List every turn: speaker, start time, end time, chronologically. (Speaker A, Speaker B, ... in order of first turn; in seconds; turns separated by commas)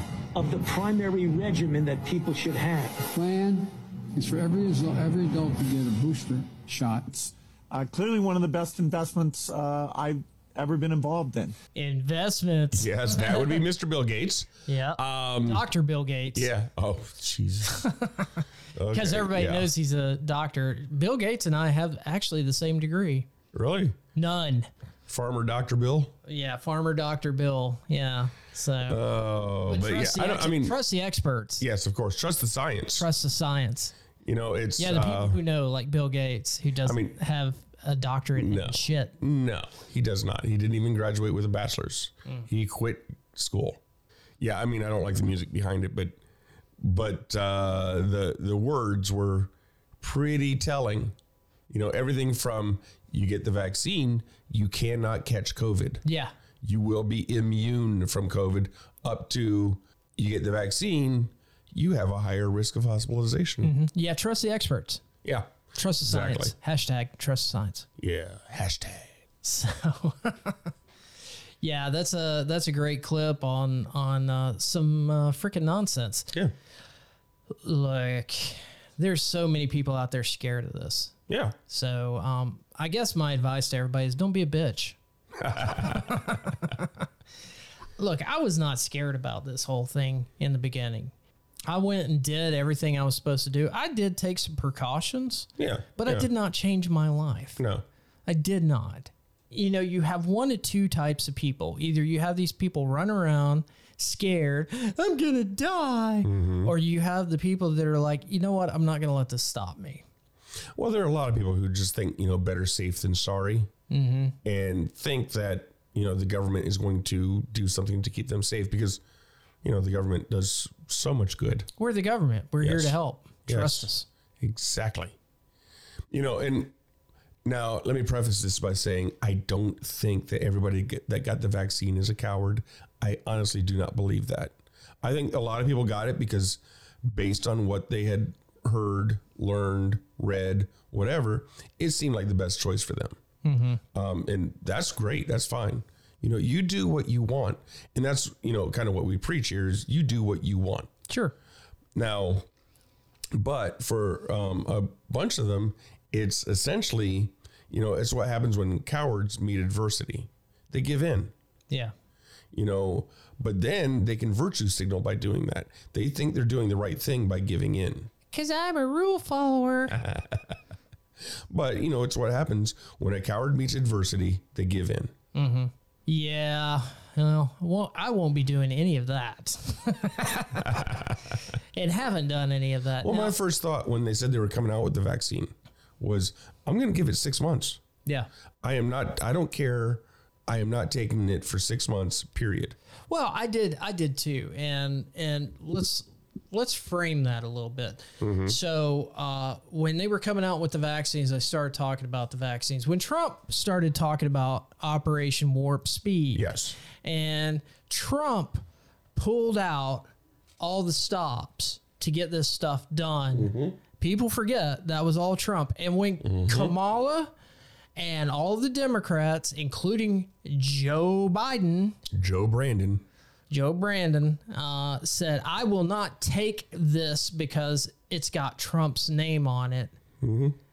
Speaker A: 0.3-3.0, Speaker B: 3.1-7.3, Speaker C: 7.7-11.6, Speaker D: 11.8-13.6, Speaker E: 12.8-15.7, Speaker D: 14.7-16.5, Speaker E: 16.3-17.9, Speaker D: 17.7-18.3, Speaker E: 18.8-19.7, Speaker D: 18.9-23.3, Speaker E: 23.5-24.0, Speaker D: 24.1-24.7, Speaker E: 25.1-26.1, Speaker D: 26.3-29.0, Speaker E: 28.9-30.8, Speaker D: 29.7-31.6, Speaker E: 31.6-33.1, Speaker D: 33.0-34.0, Speaker E: 34.2-35.4, Speaker D: 34.8-39.2, Speaker E: 36.9-37.1, Speaker E: 38.4-43.8, Speaker E: 44.4-46.2, Speaker E: 46.8-51.1, Speaker E: 51.7-56.0, Speaker D: 56.0-56.3, Speaker E: 56.6-63.7, Speaker D: 63.6-65.0, Speaker E: 65.2-66.5, Speaker D: 65.7-67.9, Speaker E: 68.0-69.1, Speaker D: 69.4-70.7, Speaker D: 71.6-76.3, Speaker D: 77.6-81.1, Speaker E: 81.3-81.6, Speaker D: 81.7-85.0, Speaker E: 85.4-86.1, Speaker D: 85.6-86.9, Speaker D: 88.0-91.1, Speaker D: 91.7-97.6, Speaker E: 95.6-96.3, Speaker E: 97.6-97.8, Speaker D: 98.3-110.0, Speaker E: 106.2-106.8, Speaker E: 110.8-113.7, Speaker D: 113.9-114.4, Speaker E: 114.4-119.0, Speaker E: 119.6-121.7, Speaker D: 121.8-124.1, Speaker E: 122.6-123.9, Speaker E: 124.4-125.2, Speaker E: 126.1-126.8, Speaker E: 127.5-143.2, Speaker D: 143.4-143.8, Speaker E: 143.9-150.9, Speaker D: 151.1-151.3, Speaker E: 151.9-152.5, Speaker E: 153.3-161.3, Speaker E: 162.5-168.1, Speaker D: 168.3-170.0, Speaker E: 169.9-170.4, Speaker E: 171.5-175.1, Speaker D: 175.3-181.0, Speaker D: 181.7-183.4, Speaker E: 183.0-187.8, Speaker E: 188.6-192.8, Speaker D: 193.1-208.6, Speaker E: 198.2-198.6, Speaker E: 206.3-206.8, Speaker D: 209.2-210.1, Speaker D: 210.6-217.3, Speaker E: 213.3-213.8, Speaker E: 216.2-216.8, Speaker D: 218.0-222.0, Speaker E: 222.1-223.1, Speaker D: 223.5-230.0, Speaker E: 230.2-230.6